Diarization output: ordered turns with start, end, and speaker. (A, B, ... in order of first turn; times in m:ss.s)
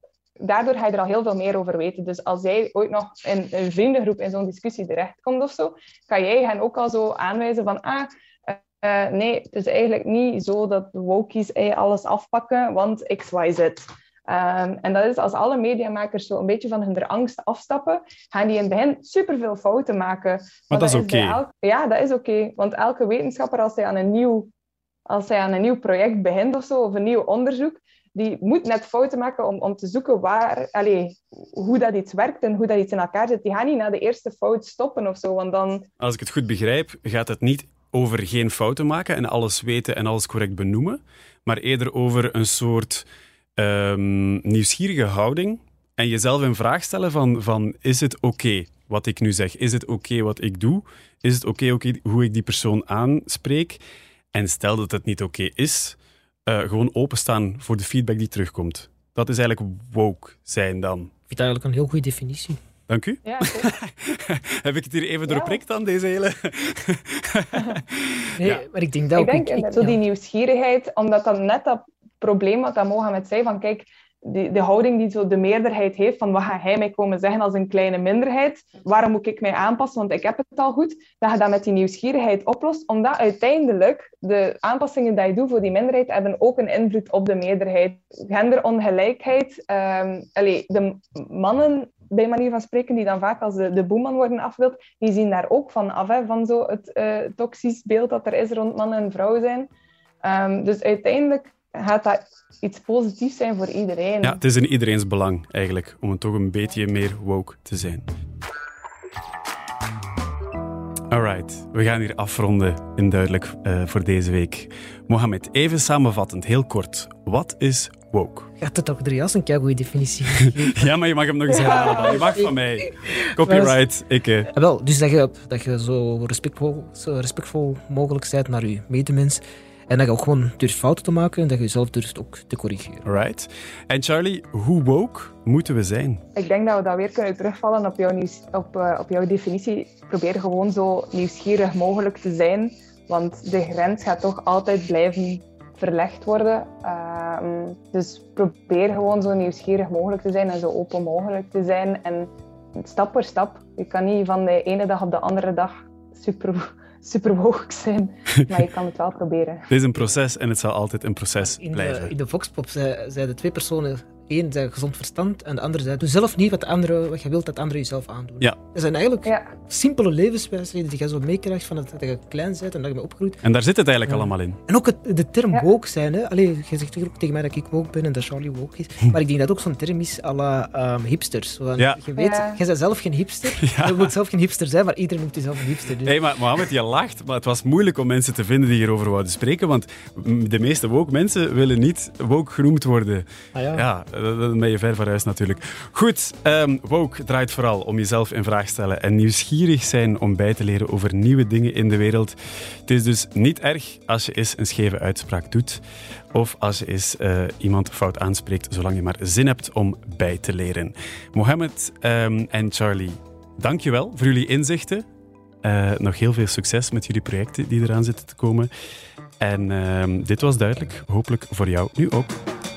0:00.4-0:24.5 A
0:20.7-0:21.4 B
0:25.1-0:35.8 A
0:36.0-0:53.8 B
0:54.3-1:01.1 B
1:01.3-1:02.6 C
1:02.9-1:08.6 B
1:03.2-1:03.7 A
1:05.2-1:05.6 A
1:08.4-1:10.0 C
1:09.2-1:39.7 A
1:40.2-1:44.4 A
1:44.2-1:48.0 B
1:51.1-1:58.5 B
1:58.6-2:00.9 C
2:00.6-2:04.5 B
2:01.5-2:03.8 C
2:04.5-2:13.0 C
2:13.0-2:16.2 B
2:16.4-2:39.7 A
2:39.7-2:42.1 B
2:41.4-2:53.4 C
2:49.2-2:49.5 A
2:53.4-2:54.6 B
2:54.0-3:06.1 C
3:02.2-3:02.6 A
3:03.6-3:04.1 B
3:06.0-3:35.0 B
3:13.5-3:13.8 C
3:35.6-3:38.7 B
3:39.4-3:42.4 B